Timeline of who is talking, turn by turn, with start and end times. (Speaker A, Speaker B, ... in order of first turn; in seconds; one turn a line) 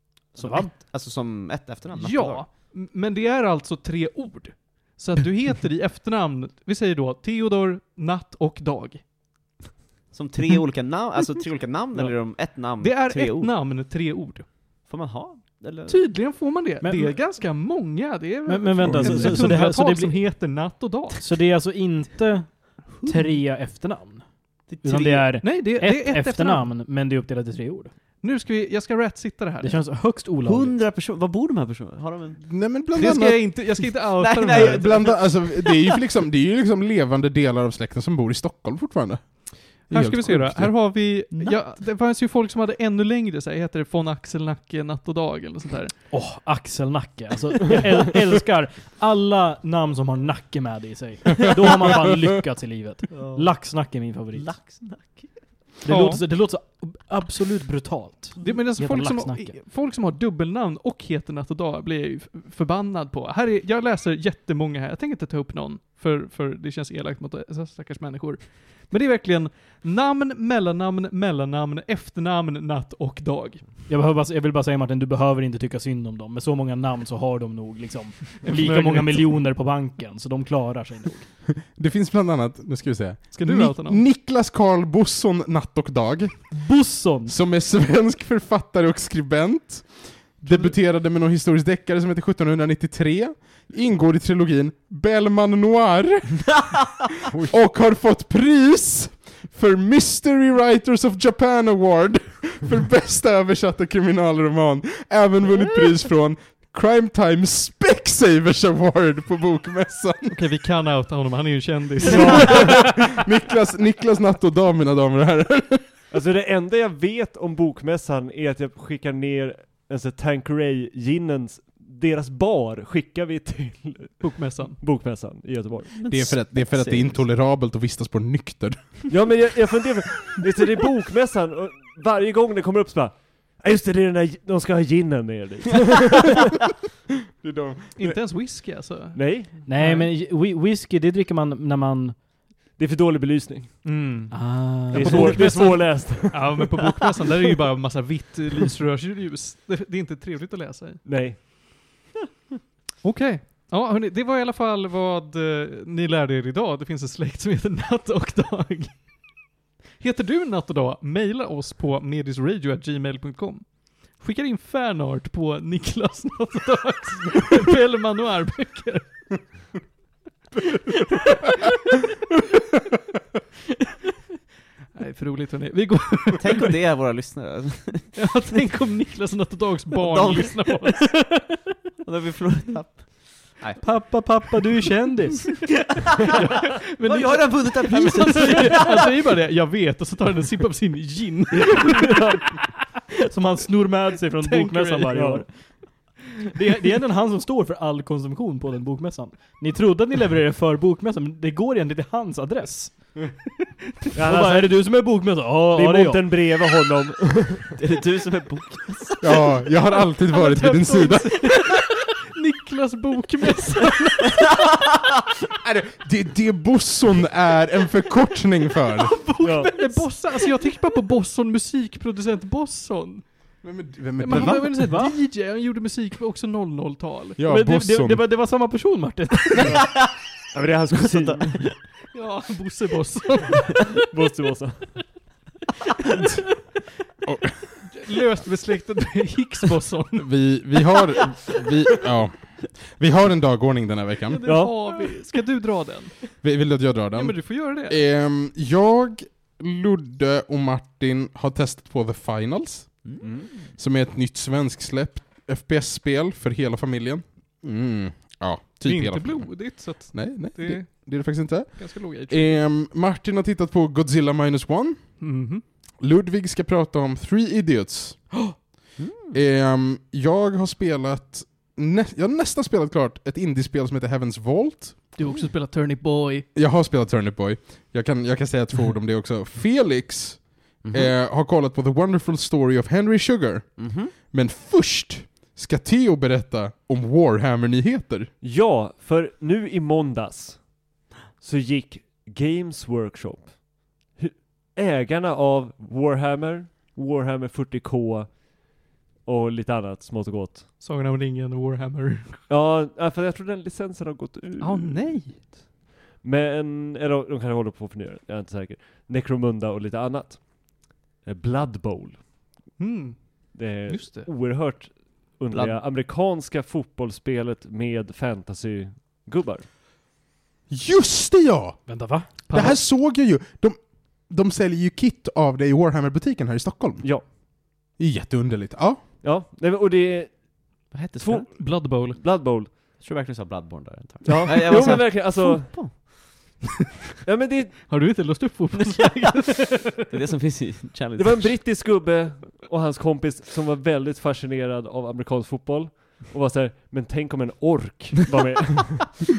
Speaker A: 0.3-2.5
Speaker B: 0.4-0.8
Speaker C: 1.9-9.0
Speaker A: 10.1-13.6
Speaker C: 12.0-14.5
Speaker A: 14.8-16.4
Speaker C: 15.9-21.2
Speaker B: 16.8-17.2
Speaker B: 18.5-20.5
Speaker B: 21.1-24.3
Speaker A: 22.9-23.3
Speaker A: 24.7-25.4
Speaker B: 24.8-27.9
Speaker C: 25.4-26.7
Speaker C: 28.2-29.8
Speaker B: 29.6-30.8
Speaker A: 30.4-32.5
Speaker D: 32.4-41.2
Speaker C: 32.9-35.1
Speaker A: 34.1-36.0
Speaker C: 39.9-46.0
Speaker B: 46.1-54.6
Speaker A: 53.1-53.6
Speaker A: 54.3-55.7
Speaker B: 55.8-59.5
Speaker C: 55.9-56.2
Speaker C: 58.4-73.7
Speaker B: 73.9-81.3
Speaker C: 78.4-79.4
Speaker D: 81.7-86.7
Speaker C: 83.3-84.0
Speaker B: 86.5-87.3
Speaker D: 87.2-96.8
Speaker C: 90.4-90.7
Speaker D: 97.4-110.4
Speaker C: 110.3-112.7
Speaker D: 112.1-116.0
Speaker E: 116.1-125.9
Speaker C: 124.2-124.8
Speaker A: 125.9-127.2
Speaker D: 126.1-129.2
Speaker E: 129.1-136.3
Speaker D: 137.4-138.2
Speaker C: 138.0-140.1
Speaker E: 139.1-139.5
Speaker B: 139.7-142.2
Speaker E: 142.8-143.8
Speaker C: 143.8-151.0
Speaker B: 144.3-145.8
Speaker E: 144.9-146.5
Speaker E: 151.0-152.0
Speaker C: 153.0-169.4
Speaker C: 170.9-171.5
Speaker C: 174.9-176.8
Speaker A: 176.4-178.2
Speaker C: 178.1-181.6
Speaker A: 180.0-181.1
Speaker A: 182.0-184.0
Speaker B: 183.8-185.7
Speaker A: 185.5-189.1
Speaker C: 186.3-192.2
Speaker B: 188.3-188.6
Speaker B: 193.2-196.0
Speaker C: 194.4-195.4
Speaker E: 195.1-195.4
Speaker B: 196.5-203.4
Speaker B: 204.1-206.5
Speaker E: 204.1-207.6
Speaker A: 207.8-209.4
Speaker D: 209.2-211.5
Speaker C: 210.3-214.5
Speaker D: 215.6-219.2
Speaker C: 219.0-227.4
Speaker E: 219.4-219.7
Speaker D: 223.6-224.9
Speaker B: 224.3-225.2
Speaker D: 227.4-228.2
Speaker B: 227.5-229.8
Speaker A: 229.7-230.2
Speaker E: 230.5-231.7
Speaker A: 231.1-231.8
Speaker C: 232.1-233.9
Speaker E: 234.1-235.1
Speaker D: 237.2-237.5
Speaker C: 237.9-240.3
Speaker D: 240.2-244.6
Speaker C: 244.3-246.3
Speaker E: 244.5-244.8
Speaker D: 246.4-265.4
Speaker C: 247.1-248.0
Speaker A: 253.0-253.7
Speaker C: 258.8-262.6
Speaker C: 265.2-265.6
Speaker D: 266.0-268.6
Speaker A: 269.0-269.4
Speaker D: 269.3-275.2
Speaker C: 275.1-276.5
Speaker D: 276.5-288.3
Speaker A: 280.8-281.1
Speaker A: 283.8-284.1
Speaker E: 288.4-290.9
Speaker E: 291.4-300.7
Speaker C: 300.8-302.4
Speaker E: 302.5-305.6
Speaker C: 304.6-305.4
Speaker E: 306.2-312.2
Speaker C: 312.8-314.3
Speaker E: 313.5-319.7
Speaker A: 315.5-315.8
Speaker D: 320.7-327.3
Speaker B: 321.9-322.3
Speaker C: 322.5-322.8
Speaker D: 328.0-329.0
Speaker E: 329.2-330.6
Speaker A: 330.9-331.7
Speaker E: 331.2-332.8
Speaker C: 331.5-332.2
Speaker A: 332.8-336.6
Speaker E: 334.2-336.1
Speaker E: 337.2-337.9
Speaker C: 337.9-340.0
Speaker A: 338.9-339.3
Speaker A: 340.1-341.6
Speaker E: 341.2-349.2